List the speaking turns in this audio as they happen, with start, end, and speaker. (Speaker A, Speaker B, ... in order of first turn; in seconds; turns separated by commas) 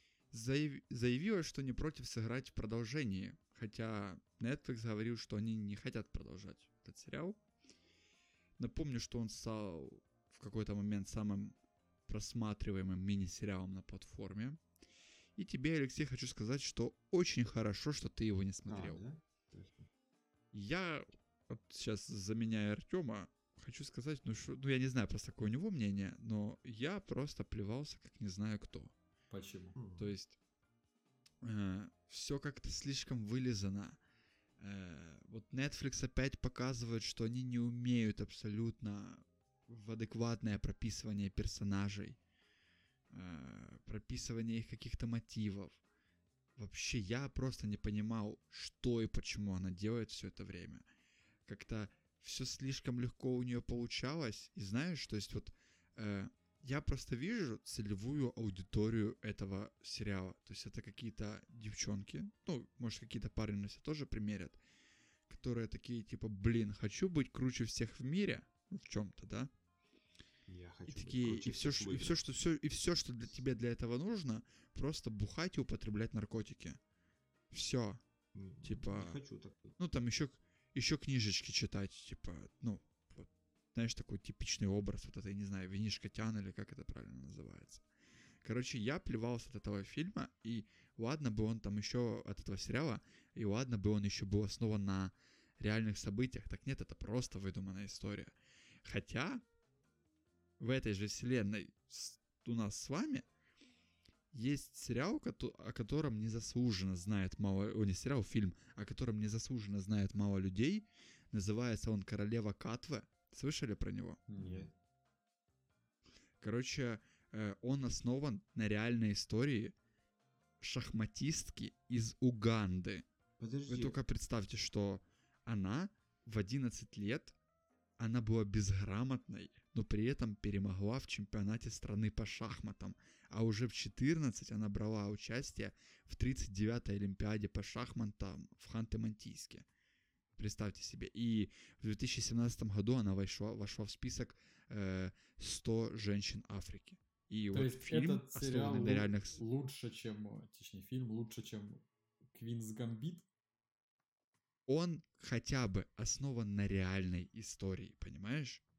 Speaker A: 0.3-7.4, Speaker A: 8.6-11.6, Speaker A: 12.1-14.6, Speaker A: 15.4-19.0, Speaker B: 18.7-19.9, Speaker A: 20.5-28.9, Speaker C: 29.3-29.8, Speaker B: 29.8-30.1, Speaker A: 30.0-30.4, Speaker A: 31.4-34.0, Speaker A: 34.6-42.2, Speaker A: 43.1-45.8, Speaker A: 46.6-50.9, Speaker A: 51.5-64.6, Speaker A: 65.3-69.5, Speaker B: 70.5-72.3, Speaker A: 70.9-76.8, Speaker A: 77.5-78.0, Speaker B: 78.3-79.8, Speaker A: 78.6-79.2, Speaker A: 79.8-87.8, Speaker A: 88.4-99.4, Speaker A: 100.6-103.3, Speaker A: 104.3-114.2, Speaker C: 114.3-114.7, Speaker B: 114.4-114.7, Speaker A: 116.4-119.7, Speaker A: 120.6-123.1, Speaker B: 123.4-124.0, Speaker A: 123.7-127.3, Speaker A: 128.0-139.7, Speaker A: 140.4-149.4, Speaker C: 147.5-153.2, Speaker A: 154.7-158.6